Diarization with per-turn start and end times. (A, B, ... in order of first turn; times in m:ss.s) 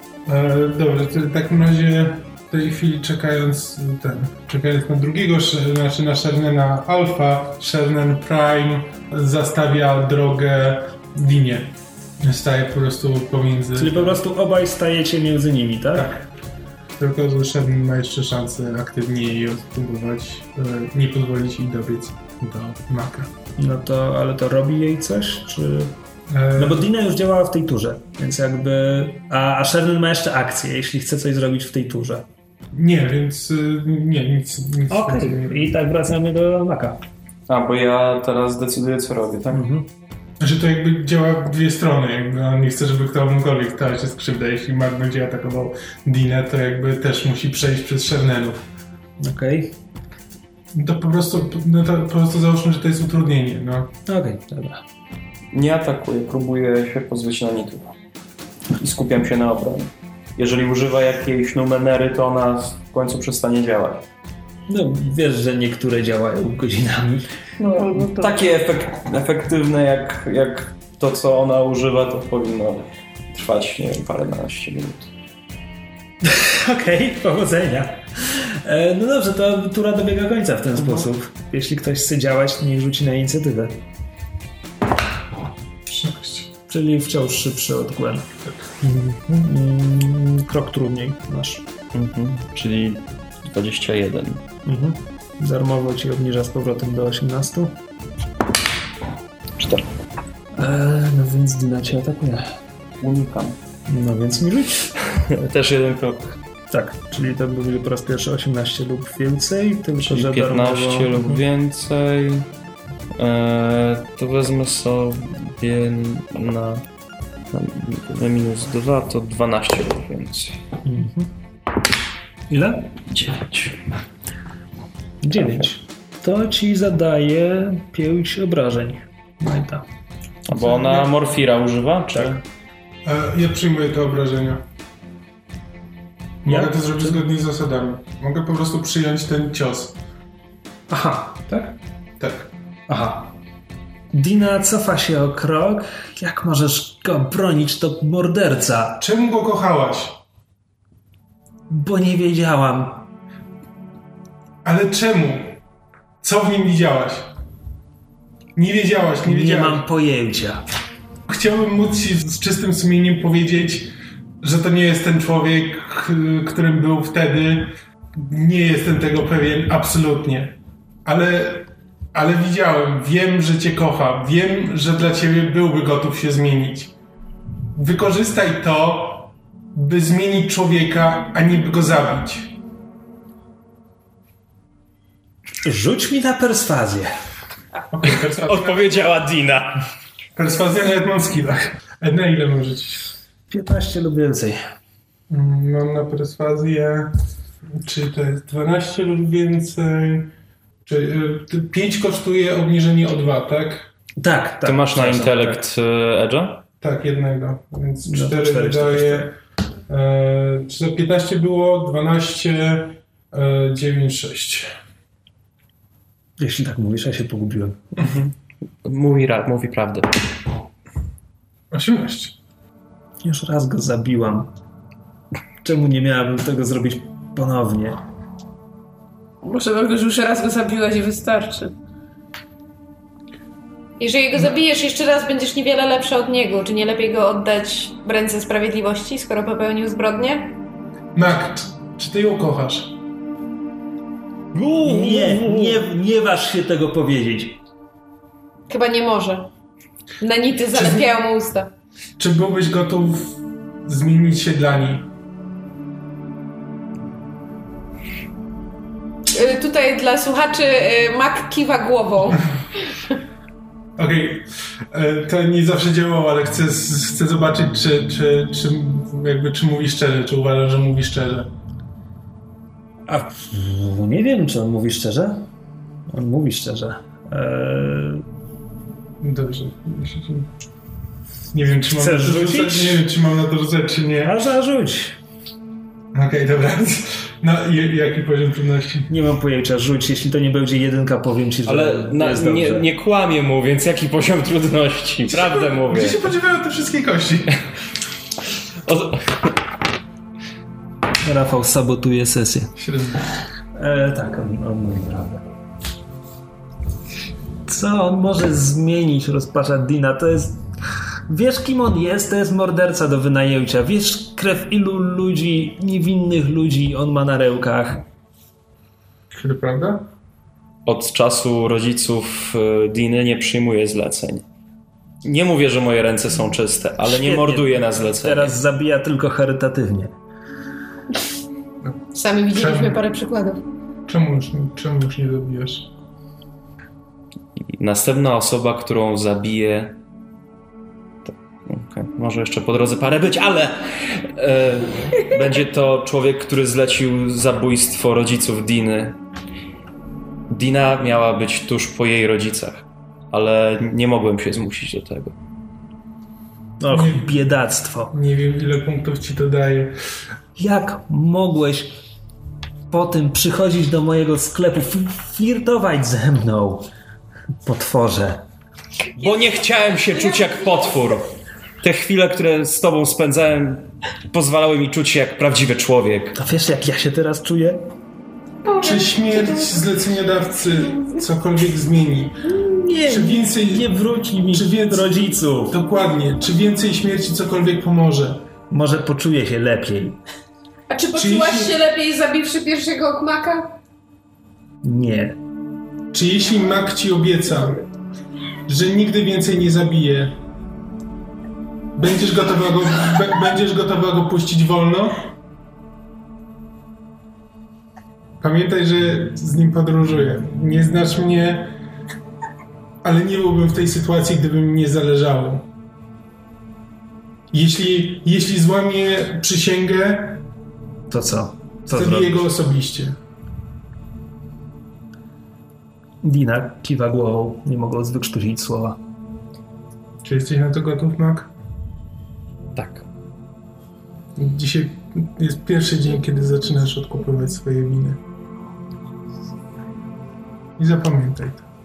0:00.3-0:14.2 A
0:13.8-0:16.2 B
0:15.9-0:16.2 A
0:17.0-0:23.3 A
0:23.6-0:26.0 B
0:26.3-0:26.9 A
0:26.6-0:32.3 B
0:32.7-0:35.6 A
0:34.9-0:37.0 B
0:37.5-0:39.6 C
0:39.5-0:39.9 B
0:40.4-0:48.6 A
0:49.2-0:49.8 B
0:50.7-0:53.9 A
0:54.1-0:54.8 B
0:55.5-0:57.9 C
0:58.8-1:04.1 C
1:04.7-1:07.3 B
1:07.6-1:08.3 D
1:07.8-1:15.1 C
1:16.2-1:23.8 B
1:25.9-1:26.5 A
1:26.7-1:28.3 B
1:28.8-1:31.6 B
1:31.9-1:34.4 C
1:34.6-1:37.8 B
1:39.6-1:39.8 C
1:40.5-1:42.5 B
1:43.0-1:43.6 C
1:43.9-1:44.9 B
1:45.1-1:46.4 C
1:46.7-1:51.4 B
1:50.0-1:52.5 C
1:53.2-1:56.8 C
1:57.5-2:00.6 C
2:00.8-2:01.3 B
2:02.5-2:02.9 B
2:03.1-2:03.8 C
2:05.2-2:09.8 B
2:10.5-2:12.4 C
2:10.6-2:11.1 A
2:12.1-2:12.4 B
2:13.0-2:14.6 A
2:16.4-2:20.0 A
2:16.5-2:17.2 B
2:20.9-2:21.8 B
2:22.2-2:22.5 A
2:22.9-2:23.4 B
2:24.1-2:29.0 B
2:29.0-2:30.2 A
2:31.7-2:33.1 B
2:34.6-2:35.6 A
2:36.2-2:37.3 A
2:38.6-2:39.8 A
2:39.2-2:40.6 B
2:41.3-2:56.9 A
2:57.8-3:02.6 A
3:05.6-3:07.2 B
3:07.9-3:09.1 A
3:08.0-3:09.8 C
3:10.4-3:13.1 A
3:13.5-3:14.6 B
3:15.3-3:17.2 A
3:17.7-3:20.3 A
3:20.8-3:23.9 A
3:24.2-3:25.6 B
3:24.6-3:26.6 C
3:26.8-3:29.4 A
3:28.1-3:29.3 B
3:29.9-3:34.7 A
3:36.4-3:37.9 B
3:38.0-3:38.3 C
3:38.8-3:40.1 C
3:41.7-3:42.4 A
3:43.2-3:44.5 B
3:45.6-3:48.0 B
3:49.4-3:51.7 D
3:54.0-4:00.6 E
4:01.2-4:03.0 A
4:04.5-4:05.8 C
4:04.8-4:07.6 B
4:08.7-4:09.5 E
4:10.2-4:11.7 E
4:10.7-4:11.0 A
4:12.2-4:15.1 A
4:19.3-4:22.9 E
4:24.0-4:31.5 A
4:33.1-4:35.5 B
4:36.1-4:38.2 B
4:39.2-4:40.5 A
4:41.5-4:44.4 A
4:41.9-4:43.0 B
4:44.2-4:45.2 B
4:46.1-4:49.1 A
4:49.1-4:52.9 B
4:51.7-4:56.3 C
4:55.3-4:57.6 A
4:58.9-4:59.6 C
5:01.2-5:02.7 B
5:02.8-5:03.3 A
5:03.8-5:05.4 B
5:07.7-5:10.6 B
5:11.3-5:18.0 B
5:19.3-5:20.1 A
5:20.9-5:24.4 C
5:25.2-5:28.6 C
5:27.0-5:30.1 B
5:32.1-5:33.6 E
5:32.5-5:33.0 A
5:34.1-5:35.9 A
5:37.8-5:40.0 C
5:41.3-5:49.2 C
5:50.5-5:55.4 C
5:56.8-5:58.1 B
5:56.9-5:57.4 A
5:58.1-5:59.9 A
6:00.6-6:02.0 B
6:02.9-6:06.9 B
6:07.6-6:08.4 B
6:09.2-6:16.4 C
6:09.2-6:10.7 E
6:16.4-6:17.8 B
6:18.6-6:19.8 E
6:18.8-6:22.4 A
6:20.8-6:21.1 E
6:22.5-6:25.8 B
6:23.1-6:23.9 A
6:24.5-6:25.1 A
6:25.7-6:28.5 A
6:28.7-6:30.2 B
6:30.9-6:33.8 E
6:31.1-6:31.8 A
6:34.8-6:35.4 B
6:36.1-6:37.8 A
6:38.7-6:40.4 A
6:42.0-6:45.3 A
6:48.4-6:51.8 A
6:53.0-6:55.7 A
6:57.5-7:00.4 A
7:01.1-7:02.4 B
7:01.9-7:03.2 A
7:06.2-7:09.0 B
7:10.2-7:11.5 A
7:12.8-7:13.1 C
7:14.4-7:18.2 A
7:20.8-7:21.6 A